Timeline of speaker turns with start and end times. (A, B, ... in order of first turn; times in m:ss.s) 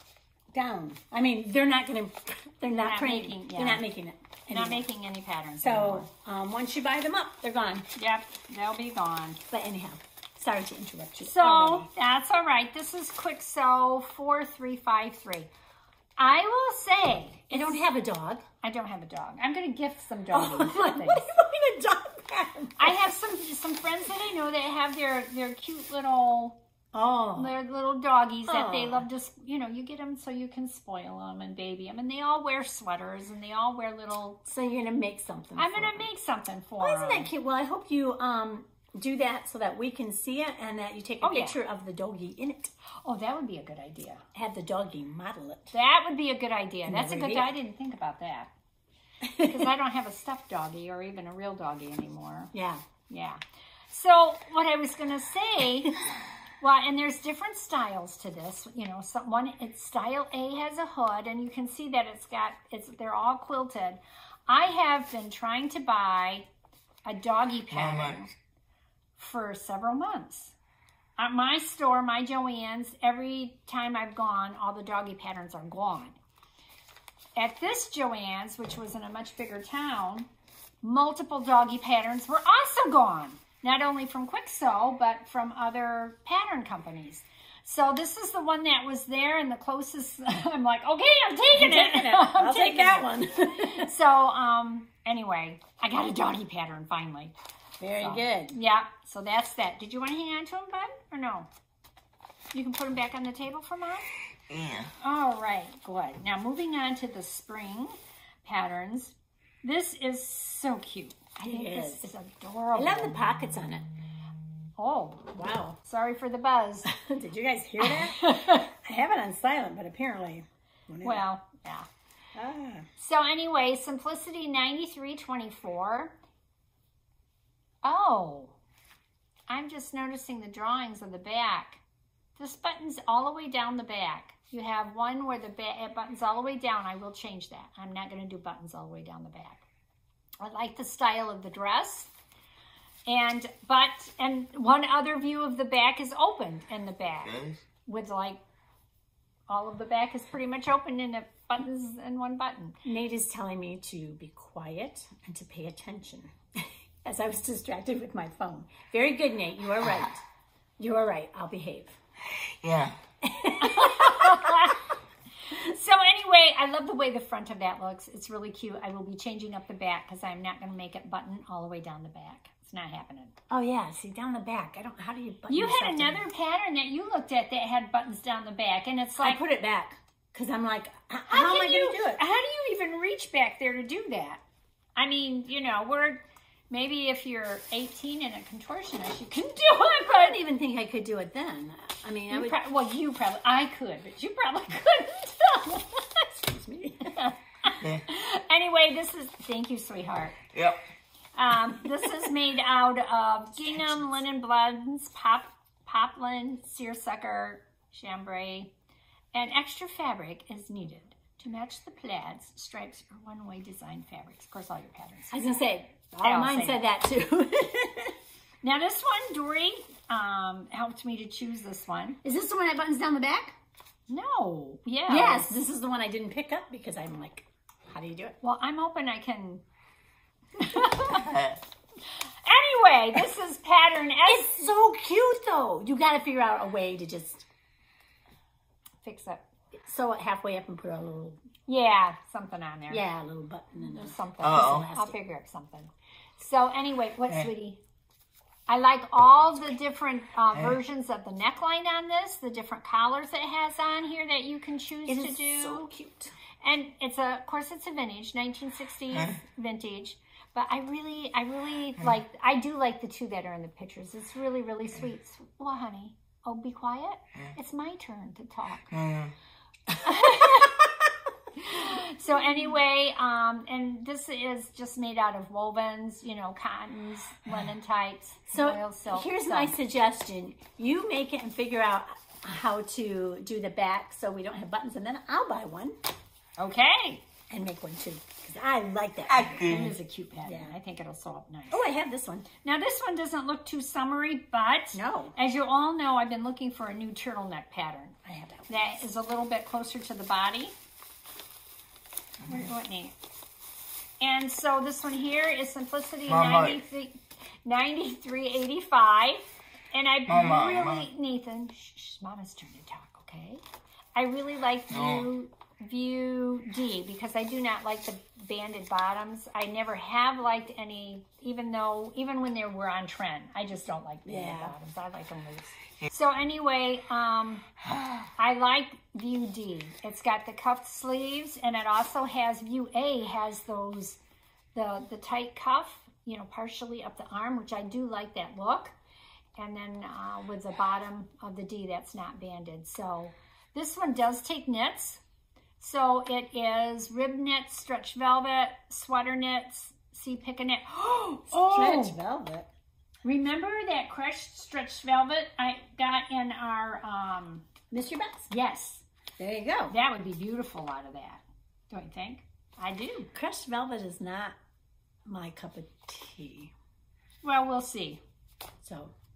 0:00.5-0:04.8 A
0:02.8-0:03.8 B
0:04.5-0:06.1 B
0:05.6-0:07.9 A
0:08.0-0:09.4 B
0:09.5-0:11.9 A
0:11.2-0:15.5 B
0:16.2-0:17.8 B
0:17.5-0:18.4 A
0:18.6-0:21.3 B
0:20.3-0:23.1 A
0:22.8-0:26.6 B
0:26.9-0:27.5 A
0:27.3-0:34.4 B
0:28.4-0:29.0 A
0:34.4-0:36.1 A
0:35.6-0:37.3 B
0:36.8-0:42.7 A
0:41.2-0:41.6 B
0:43.0-0:44.2 B
0:44.3-0:45.7 A
0:45.7-0:48.5 B
0:46.8-0:47.5 A
0:49.2-0:49.7 A
0:49.4-0:52.5 B
0:52.5-0:52.8 A
0:53.1-0:56.0 B
0:56.6-1:06.4 B
1:07.0-1:08.3 B
1:07.7-1:08.2 C
1:09.2-1:10.5 B
1:11.2-1:16.2 B
1:17.4-1:20.3 B
1:20.8-1:37.3 B
1:31.5-1:33.9 A
1:37.8-1:38.6 A
1:38.0-1:41.5 B
1:42.5-1:44.1 B
1:44.5-1:44.9 C
1:45.0-1:53.1 B
1:51.5-1:52.1 A
1:52.7-1:53.9 A
1:54.8-1:55.3 B
1:55.3-1:55.8 A
1:55.8-1:56.9 B
1:56.9-2:01.2 A
1:57.8-1:58.7 B
2:01.0-2:01.9 B
2:02.3-2:02.8 A
2:03.0-2:06.2 B
2:07.8-2:08.5 B
2:09.5-2:11.8 B
2:12.4-2:19.6 B
2:20.4-2:22.1 B
2:23.1-2:28.4 B
2:27.2-2:27.6 C
2:29.5-2:32.8 B
2:32.8-2:40.2 A
2:40.8-2:42.0 A
2:42.4-2:43.0 C
2:43.2-2:44.8 A
2:43.6-2:44.9 B
2:45.5-2:53.3 B
2:53.5-2:56.2 A
2:55.5-2:59.4 B
2:59.2-3:02.2 A
3:01.3-3:04.4 B
3:05.0-3:10.4 B
3:10.0-3:12.6 A
3:12.3-3:16.1 B
3:16.3-3:17.2 A
3:17.0-3:20.4 B
3:20.5-3:20.8 C
3:21.4-3:28.7 B
3:29.3-3:35.5 B
3:35.3-3:38.2 A
3:36.2-3:36.8 B
3:38.6-3:42.2 B
3:42.2-3:43.6 A
3:44.1-3:45.5 B
3:45.1-3:48.4 A
3:48.4-3:49.6 B
3:50.6-3:51.4 B
3:52.4-3:54.6 B
3:54.2-3:57.4 A
3:59.0-3:59.5 B
3:59.8-4:01.4 A
4:01.7-4:03.0 B
4:02.9-4:05.1 A
4:03.8-4:07.8 B
4:04.4-4:04.9 C
4:08.7-4:15.9 B
4:15.0-4:16.3 A
4:16.6-4:28.9 B
4:28.9-4:29.3 C
4:30.0-4:30.8 B
4:30.2-4:30.9 A
4:31.6-4:39.7 B
4:38.5-4:45.9 A
4:46.6-4:47.2 B
4:47.5-4:49.8 A
4:49.3-4:50.0 C
4:49.4-4:51.8 B
4:50.4-4:50.7 A
4:51.7-4:52.5 A
4:52.6-4:58.2 B
4:54.9-4:55.3 A
4:58.2-4:59.0 A
4:58.7-5:00.7 B
5:02.5-5:03.1 B
5:04.2-5:13.6 B
5:06.3-5:06.8 C
5:10.3-5:11.1 C
5:14.2-5:27.7 B
5:14.9-5:15.3 C
5:24.2-5:24.7 A
5:28.4-5:34.2 B
5:34.7-5:38.9 B
5:39.6-5:45.2 B
5:45.8-5:52.2 B
5:51.5-5:52.7 A
5:53.2-5:57.6 B
5:57.9-5:58.5 A
5:58.5-5:59.0 B
5:59.4-5:59.9 A
5:59.9-6:03.3 B
6:03.3-6:04.6 A
6:05.2-6:06.7 A
6:07.4-6:08.2 B
6:08.8-6:09.1 A